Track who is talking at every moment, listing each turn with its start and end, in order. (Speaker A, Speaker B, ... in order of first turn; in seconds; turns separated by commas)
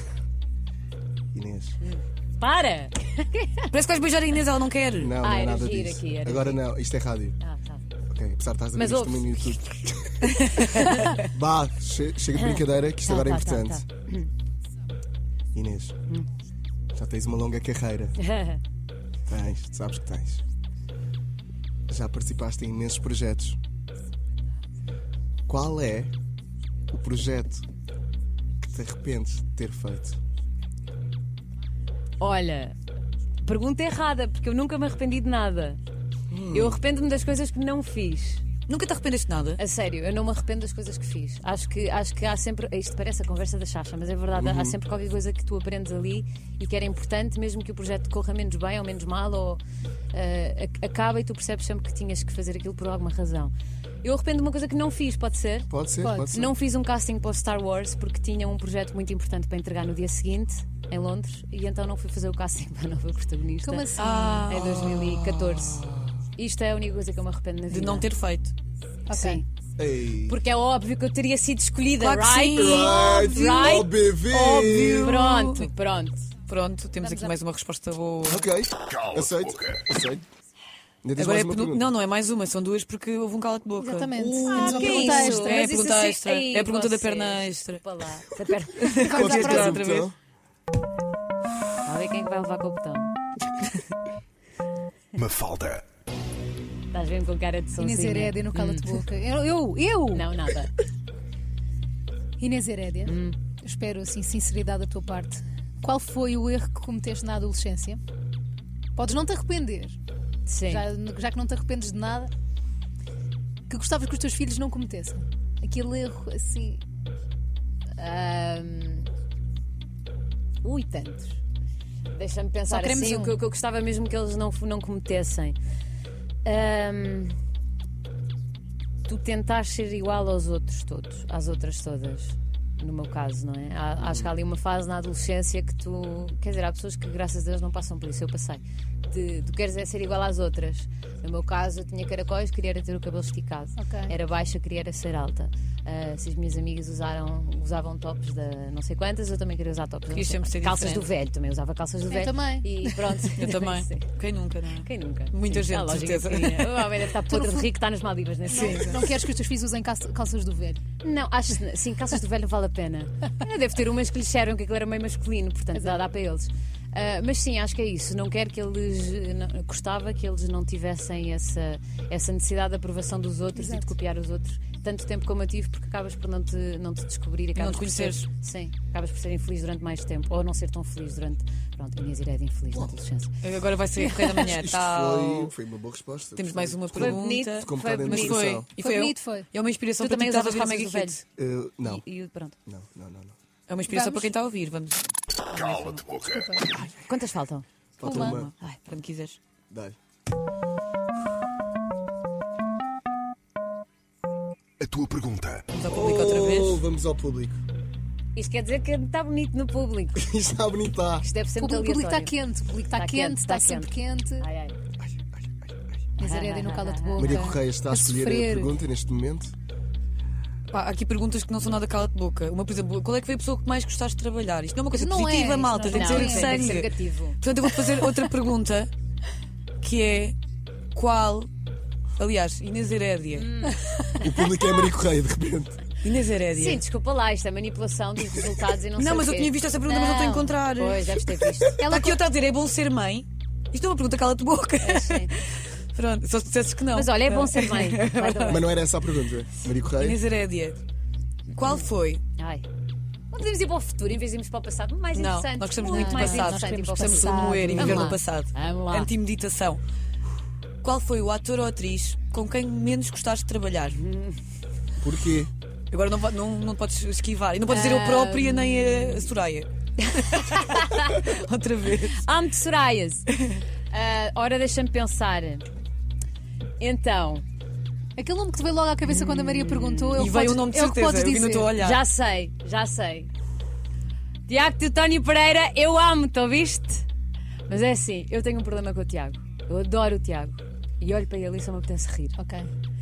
Speaker A: 1.3-1.8, Speaker B: 1.8-3.7, Speaker C: 3.7-5.2, Speaker A: 5.0-7.4, Speaker B: 5.2-6.6, Speaker B: 7.4-7.8, Speaker A: 8.1-10.2, Speaker B: 8.8-9.7, Speaker C: 10.3-11.1, Speaker A: 11.2-13.8, Speaker B: 12.4-14.3, Speaker A: 15.5-15.9, Speaker A: 16.9-18.2, Speaker B: 18.2-18.6, Speaker A: 19.3-20.4, Speaker A: 21.9-23.6, Speaker A: 25.5-26.1, Speaker A: 26.9-27.6, Speaker A: 28.6-30.2, Speaker B: 32.2-32.7, Speaker B: 33.4-35.8, Speaker A: 36.3-36.8, Speaker B: 36.5-38.4, Speaker C: 38.7-39.6, Speaker B: 39.6-49.6, Speaker A: 44.4-44.8, Speaker B: 50.1-53.5, Speaker B: 54.0-55.7, Speaker A: 55.7-56.5, Speaker D: 56.0-56.3, Speaker B: 56.3-65.8, Speaker D: 63.6-64.5, Speaker C: 64.0-65.9, Speaker B: 66.4-68.1, Speaker C: 67.7-68.5, Speaker D: 69.1-69.4, Speaker B: 69.1-69.5, Speaker A: 69.8-70.4, Speaker B: 70.3-73.9, Speaker C: 72.0-73.1, Speaker A: 72.6-75.2, Speaker C: 74.3-75.7, Speaker B: 74.5-76.2, Speaker C: 76.5-78.5, Speaker D: 77.0-77.4, Speaker A: 78.2-80.2, Speaker A: 81.0-81.9, Speaker C: 81.2-84.2, Speaker D: 83.8-85.8, Speaker A: 84.2-85.1, Speaker B: 84.5-89.8, Speaker C: 84.8-87.8, Speaker C: 88.8-90.1, Speaker A: 89.1-90.2, Speaker D: 89.1-89.6, Speaker B: 91.8-93.1, Speaker E: 95.2-95.8, Speaker B: 96.9-99.0, Speaker D: 97.8-100.3, Speaker B: 100.1-100.8, Speaker D: 102.4-108.0, Speaker B: 103.0-103.4, Speaker D: 109.0-110.0, Speaker B: 110.5-110.9, Speaker D: 110.7-112.3, Speaker D: 113.7-116.8, Speaker B: 118.0-119.1, Speaker B: 120.6-121.4, Speaker B: 122.1-125.6, Speaker C: 122.7-123.3, Speaker B: 126.5-127.4, Speaker B: 129.1-154.1, Speaker A: 134.0-134.3, Speaker D: 143.8-144.1, Speaker C: 150.1-151.1, Speaker D: 152.1-152.7, Speaker C: 152.8-156.9, Speaker B: 154.8-159.0, Speaker D: 157.3-157.7, Speaker D: 158.5-160.8, Speaker C: 158.6-158.9, Speaker B: 161.0-183.3, Speaker D: 173.6-173.9, Speaker C: 177.6-178.2, Speaker C: 183.4-185.5, Speaker A: 184.3-188.7, Speaker C: 186.4-191.2, Speaker B: 186.9-188.5, Speaker D: 188.8-189.5, Speaker B: 190.0-191.2, Speaker A: 191.4-192.0, Speaker B: 191.8-192.6, Speaker A: 192.7-193.3, Speaker C: 193.7-196.2, Speaker D: 193.9-194.3, Speaker E: 195.6-196.4, Speaker D: 196.2-196.7, Speaker B: 197.1-197.7, Speaker A: 198.0-198.5, Speaker D: 198.0-198.5, Speaker C: 198.1-199.4, Speaker E: 204.8-205.7, Speaker C: 205.7-206.8, Speaker A: 205.8-207.6, Speaker B: 208.3-210.2, Speaker A: 210.2-211.3, Speaker B: 211.2-212.4, Speaker D: 211.6-214.5, Speaker B: 212.9-214.8, Speaker A: 215.0-215.8, Speaker D: 216.2-218.7, Speaker B: 216.2-217.5, Speaker A: 217.2-219.5, Speaker C: 220.7-228.9, Speaker D: 224.9-226.8, Speaker B: 225.7-227.4, Speaker C: 229.8-230.4, Speaker C: 230.9-231.5, Speaker C: 232.2-233.5, Speaker B: 233.3-234.2, Speaker A: 234.2-235.8, Speaker C: 236.0-236.8, Speaker B: 236.5-241.9, Speaker C: 239.0-248.7, Speaker D: 239.9-240.5, Speaker D: 241.8-242.2, Speaker B: 244.8-245.3, Speaker B: 246.9-248.8, Speaker A: 248.5-250.2, Speaker C: 249.9-250.8, Speaker C: 251.6-252.2, Speaker B: 251.6-252.7, Speaker B: 253.3-259.1, Speaker C: 255.1-259.8, Speaker D: 255.8-258.2, Speaker C: 260.8-264.0, Speaker B: 264.0-264.4, Speaker A: 265.0-265.5, Speaker C: 265.9-272.2, Speaker B: 267.7-269.2, Speaker B: 270.1-271.3, Speaker B: 272.2-273.3, Speaker B: 273.9-275.6, Speaker B: 276.8-277.4, Speaker D: 278.2-281.7, Speaker B: 279.1-280.4, Speaker C: 279.6-282.0, Speaker B: 281.8-283.3, Speaker B: 284.5-287.1, Speaker B: 287.7-292.4, Speaker D: 292.4-292.7